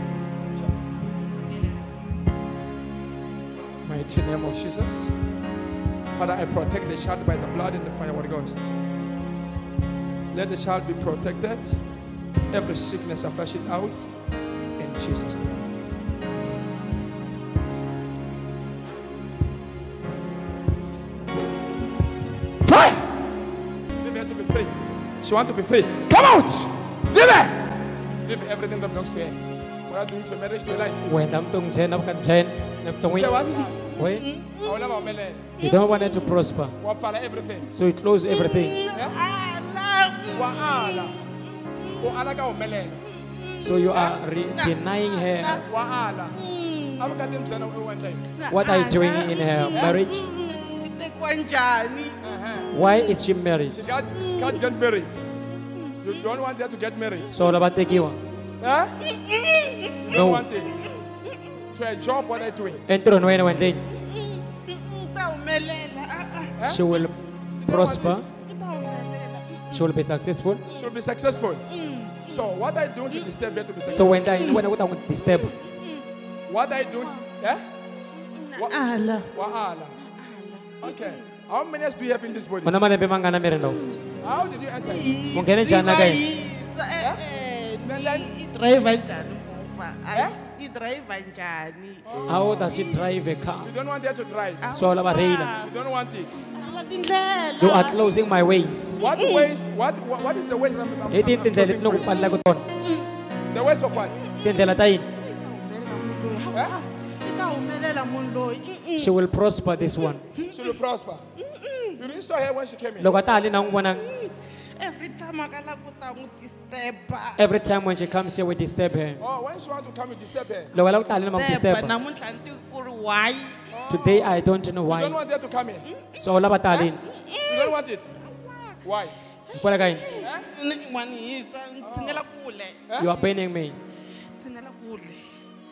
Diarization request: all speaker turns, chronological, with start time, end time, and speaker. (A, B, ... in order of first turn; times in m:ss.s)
0:03.8-0:05.2 A
0:06.1-0:08.8 A
0:10.3-0:11.9 A
0:12.5-0:14.1 A
0:14.8-0:15.7 A
0:22.7-0:23.0 A
0:24.0-0:31.2 A
0:31.0-0:34.3 B
0:33.1-0:33.9 A
0:33.8-0:36.3 C
0:34.6-0:35.6 A
0:35.6-0:36.8 B
0:36.8-0:37.7 A
0:37.7-0:38.8 B
0:38.3-0:42.3 C
0:38.9-0:39.2 A
0:40.3-0:41.2 A
0:42.0-0:43.0 A
0:43.1-0:45.6 C
0:43.6-0:45.7 B
0:43.9-0:44.2 A
0:45.6-0:46.4 A
0:46.3-0:47.3 C
0:47.0-0:48.3 A
0:48.4-0:52.2 C
0:48.5-0:50.3 B
0:49.7-0:50.0 A
0:52.2-0:52.7 A
0:52.7-0:53.8 B
0:53.7-0:55.3 A
0:54.1-0:54.6 C
0:55.6-0:56.1 C
0:56.0-0:57.3 A
0:57.3-0:58.2 B
0:58.6-0:58.9 A
0:59.0-1:00.0 C
1:00.0-1:00.9 A
1:00.1-1:00.5 B
1:01.7-1:02.8 A
1:02.9-1:03.8 B
1:03.9-1:06.6 C
1:06.6-1:06.8 A
1:06.6-1:08.3 B
1:07.6-1:08.3 A
1:08.4-1:09.9 C
1:09.7-1:10.6 B
1:10.7-1:10.9 C
1:10.7-1:11.7 A
1:11.7-1:12.5 C
1:12.3-1:14.4 A
1:13.9-1:15.6 B
1:14.2-1:14.6 C
1:15.2-1:16.1 C
1:16.5-1:17.6 A
1:16.9-1:17.3 C
1:18.2-1:21.3 C
1:19.3-1:20.0 A
1:20.8-1:22.8 A
1:22.6-1:23.9 B
1:23.7-1:24.1 C
1:24.2-1:25.2 A
1:24.8-1:33.0 C
1:25.3-1:26.2 B
1:27.8-1:28.3 A
1:30.1-1:30.4 A
1:32.1-1:32.8 A
1:32.3-1:33.7 B
1:33.6-1:34.7 A
1:34.6-1:35.7 C
1:34.7-1:35.5 B
1:35.6-1:36.4 A
1:36.4-1:38.3 C
1:37.6-1:39.0 B
1:39.0-1:42.2 A
1:39.0-1:39.5 C
1:41.1-1:42.6 B
1:42.8-1:43.1 C
1:43.5-1:44.2 A
1:44.1-1:49.2 C
1:44.4-1:45.1 B
1:46.5-1:46.8 A
1:49.0-1:50.3 B
1:50.3-1:50.8 C
1:50.5-1:51.2 A
1:51.4-1:52.0 C
1:52.0-1:53.2 A
1:53.0-1:54.1 B
1:53.9-1:57.5 C
1:57.4-1:59.2 B
1:59.2-2:01.0 A
2:00.7-2:02.0 B
2:01.3-2:03.8 C
2:03.7-2:05.9 A
2:03.9-2:05.2 B
2:06.2-2:07.0 B
2:06.7-2:08.8 C
2:07.5-2:08.2 A
2:08.8-2:09.2 A
2:09.5-2:10.0 B
2:09.5-2:12.8 C
2:10.2-2:10.5 A
2:11.8-2:12.2 A
2:12.9-2:13.1 A
2:13.0-2:13.8 B
2:14.1-2:15.3 C